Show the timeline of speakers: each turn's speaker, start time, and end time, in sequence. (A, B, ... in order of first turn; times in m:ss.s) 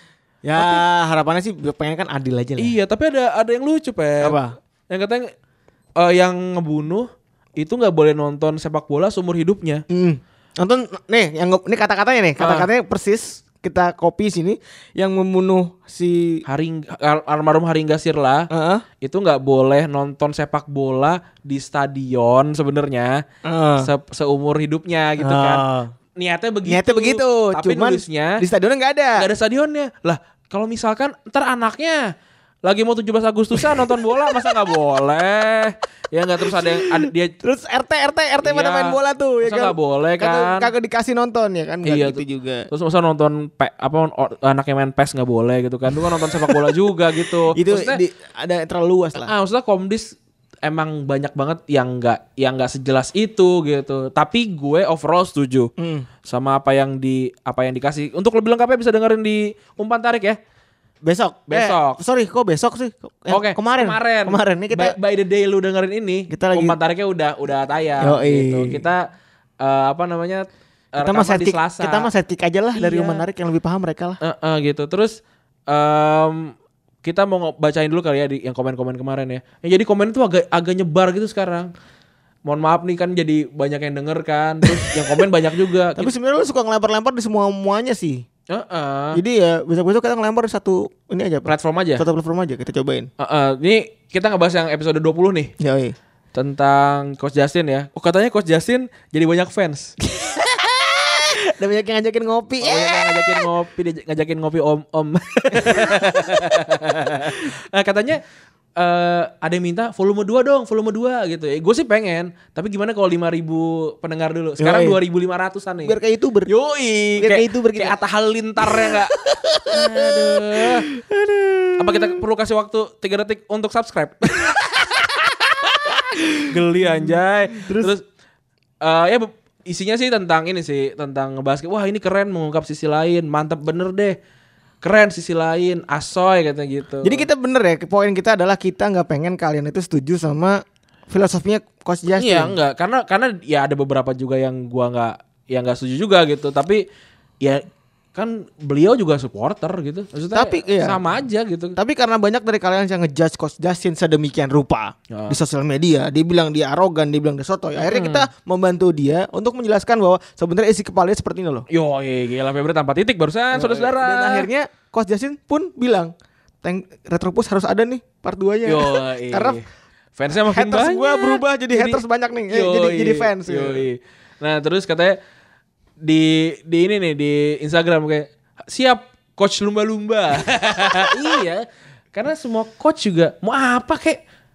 0:00.4-0:02.8 A
0:00.6-0:00.8 B
0:02.6-0:04.4 B
0:04.2-0:04.5 A
0:04.9-0:05.3 B
0:06.0-0:09.8 B
0:09.9-0:16.4 A
0:12.4-0:12.7 B
0:16.4-0:18.5 B
0:18.5-0:18.8 A
0:19.0-0:23.2 B
0:23.4-0:23.9 A
0:23.8-0:25.6 B
0:25.2-0:25.9 A
0:26.2-0:28.4 B
0:26.6-0:29.2 A
0:29.2-0:32.1 B
0:32.6-0:37.3 B
0:33.6-0:34.0 A
0:36.5-0:42.7 A
0:38.4-0:40.7 B
0:41.8-0:48.0 B
0:46.0-0:46.8 A
0:47.5-0:49.3 A
0:49.2-0:55.7 B
0:55.8-0:56.1 A
0:56.2-1:00.4 B
1:01.0-1:04.9 A
1:01.5-1:02.0 B
1:03.3-1:09.1 B
1:06.3-1:06.8 A
1:08.0-1:08.8 A
1:09.6-1:12.1 B
1:11.0-1:14.2 A
1:12.7-1:13.2 B
1:14.2-1:21.7 B
1:22.4-1:26.1 B
1:24.7-1:25.2 A
1:26.0-1:28.2 A
1:28.5-1:29.2 B
1:29.1-1:33.1 A
1:31.4-1:32.0 B
1:33.2-1:35.5 B
1:35.6-1:36.0 A
1:36.3-1:39.9 B
1:40.0-1:43.5 A
1:42.6-1:48.2 B
1:45.5-1:47.4 A
1:48.8-1:56.0 B
1:54.6-1:55.0 A
1:55.8-1:56.5 A
1:56.5-1:59.1 B
1:57.2-1:57.9 A
1:58.6-2:02.2 A
1:59.7-2:00.8 B
2:01.8-2:08.0 B
2:04.4-2:05.1 A
2:05.6-2:07.9 A
2:08.8-2:14.2 B
2:14.8-2:17.3 B
2:17.0-2:22.5 A
2:22.1-2:26.8 B
2:27.4-2:31.8 B
2:30.3-2:31.0 A
2:31.8-2:41.6 A
2:35.1-2:35.4 B
2:37.8-2:38.2 B
2:41.7-2:44.5 B
2:43.5-2:49.6 A
2:48.6-2:49.6 B
2:50.2-2:55.2 B
2:50.5-2:53.8 A
2:56.0-3:04.2 B